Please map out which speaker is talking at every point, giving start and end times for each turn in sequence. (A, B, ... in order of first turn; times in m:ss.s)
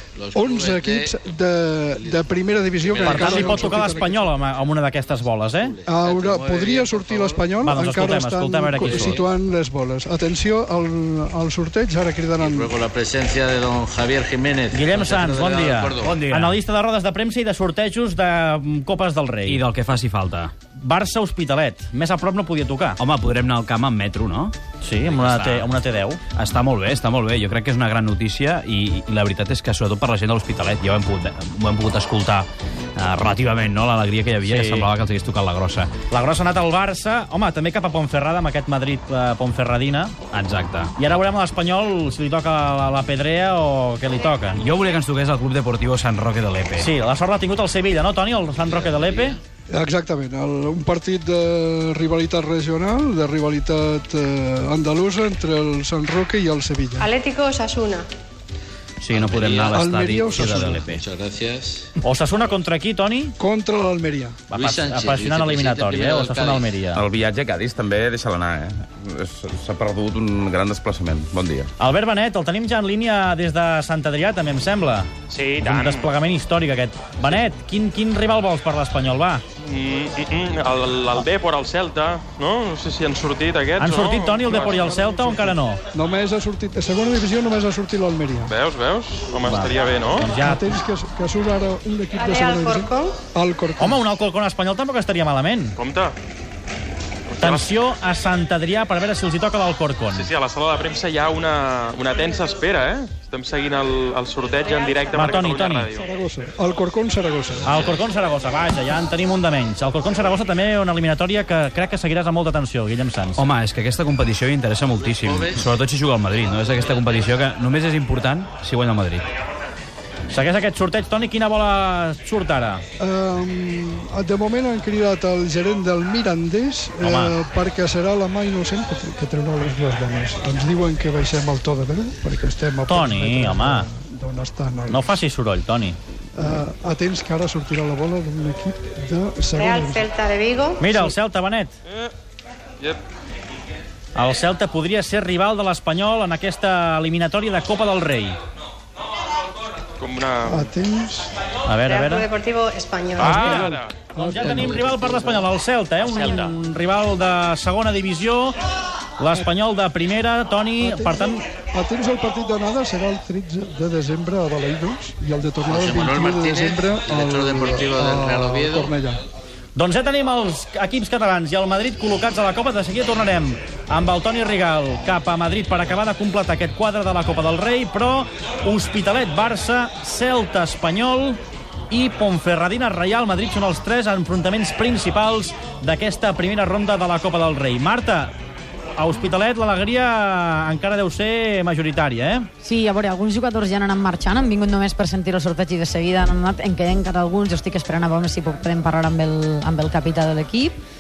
0:00.2-0:01.2 A
0:00.3-0:04.2 B
0:02.0-0:07.6 A
0:03.0-0:05.7 C
0:05.8-0:12.8 B
0:07.6-0:09.2 C
0:08.8-0:09.3 A
0:12.4-0:16.2 A
0:14.7-0:19.6 C
0:16.0-0:16.6 D
0:19.5-0:20.5 D
0:20.8-0:23.0 C
0:23.0-0:24.6 D
0:24.8-0:26.2 C
0:25.0-0:25.7 D
0:26.3-0:35.9 D
0:34.4-0:34.9 C
0:36.1-0:40.1 C
0:40.3-0:40.9 D
0:41.0-0:44.6 C
0:44.6-0:46.9 D
0:46.8-0:49.4 C
0:49.7-0:57.1 B
0:57.1-0:58.0 E
0:59.0-1:01.0 D
0:59.1-1:01.9 A
0:59.7-1:01.0 B
1:02.0-1:03.3 C
1:03.4-1:04.4 B
1:04.5-1:06.8 A
1:04.5-1:07.0 C
1:06.9-1:11.7 F
1:11.8-1:15.1 C
1:15.3-1:16.1 G
1:15.6-1:19.4 C
1:19.6-1:25.2 G
1:23.8-1:25.8 C
1:24.7-1:28.5 B
1:28.5-1:30.3 G
1:29.4-1:30.8 C
1:30.4-1:34.0 B
1:32.2-1:33.1 E
1:33.8-1:35.8 C
1:35.8-1:36.1 G
1:37.3-1:37.7 G
1:37.4-1:40.3 C
1:40.1-1:46.1 G
1:45.1-1:45.9 C
1:45.9-1:47.8 B
1:47.6-1:53.4 C
1:47.7-1:48.0 A
1:53.4-1:59.2 D
1:55.0-1:55.6 A
2:00.3-2:02.8 C
2:03.0-2:15.1 B
2:07.0-2:07.4 C
2:12.9-2:13.9 C
2:14.9-2:16.0 C
2:16.4-2:20.1 B
2:19.6-2:20.7 E
2:20.8-2:21.8 C
2:24.1-2:28.4 C
2:30.0-2:30.7 G
2:30.4-2:31.3 B
2:31.6-2:32.3 C
2:31.9-2:33.1 E
2:33.1-2:34.0 G
2:33.2-2:35.5 B
2:33.2-2:38.6 C
2:36.0-2:36.5 G
2:39.2-2:41.4 C
2:40.8-2:49.2 B
2:45.7-2:48.9 A
2:49.8-3:01.4 C
3:01.9-3:08.3 C
3:09.0-3:12.5 C
3:12.6-3:20.8 H